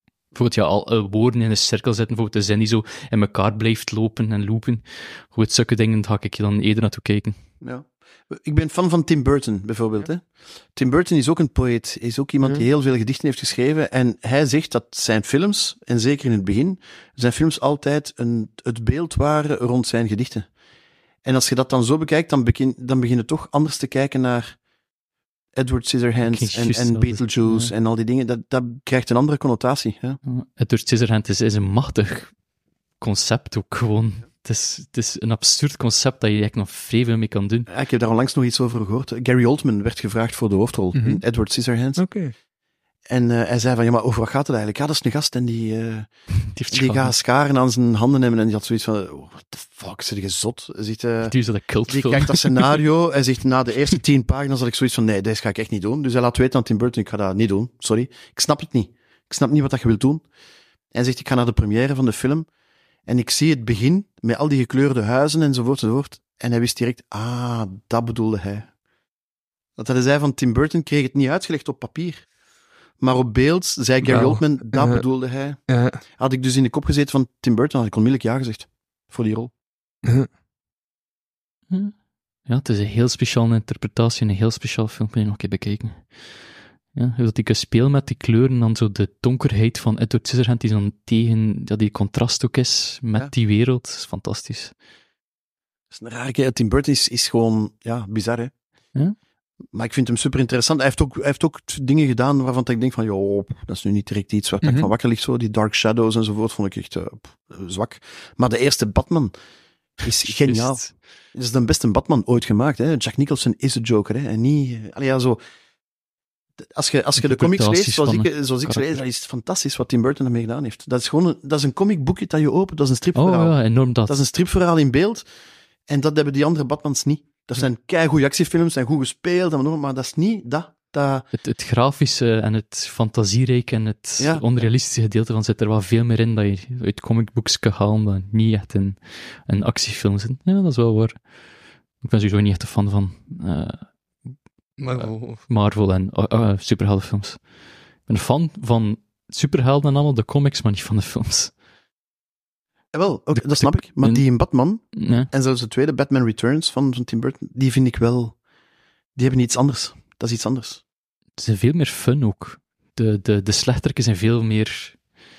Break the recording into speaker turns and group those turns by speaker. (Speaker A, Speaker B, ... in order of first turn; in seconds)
Speaker A: 0.3-7.4, 26.2-27.7, 30.2-32.4, 33.0-37.7, 46.5-47.1, 51.2-52.8, 81.7-86.2, 86.9-94.7, 110.2-110.9, 117.2-119.0, 123.2-124.2, 131.3-141.2, 142.0-143.9, 145.0-147.5, 148.1-151.5, 153.3-155.3, 161.4-165.0
Speaker B: 7.6-20.5, 21.2-24.6, 25.6-30.2, 37.7-42.1, 43.1-46.1, 46.7-51.4, 51.9-60.2, 60.9-62.5, 63.1-68.7, 69.8-72.3, 73.0-79.5, 95.9-98.5, 99.7-109.3, 110.0-115.4, 116.6-125.2, 125.9-131.3, 134.2-134.5, 152.9-158.4, 159.2-160.8
Speaker C: 41.0-41.2, 42.0-42.3, 74.0-75.0, 75.7-76.0, 104.6-104.9, 144.8-145.4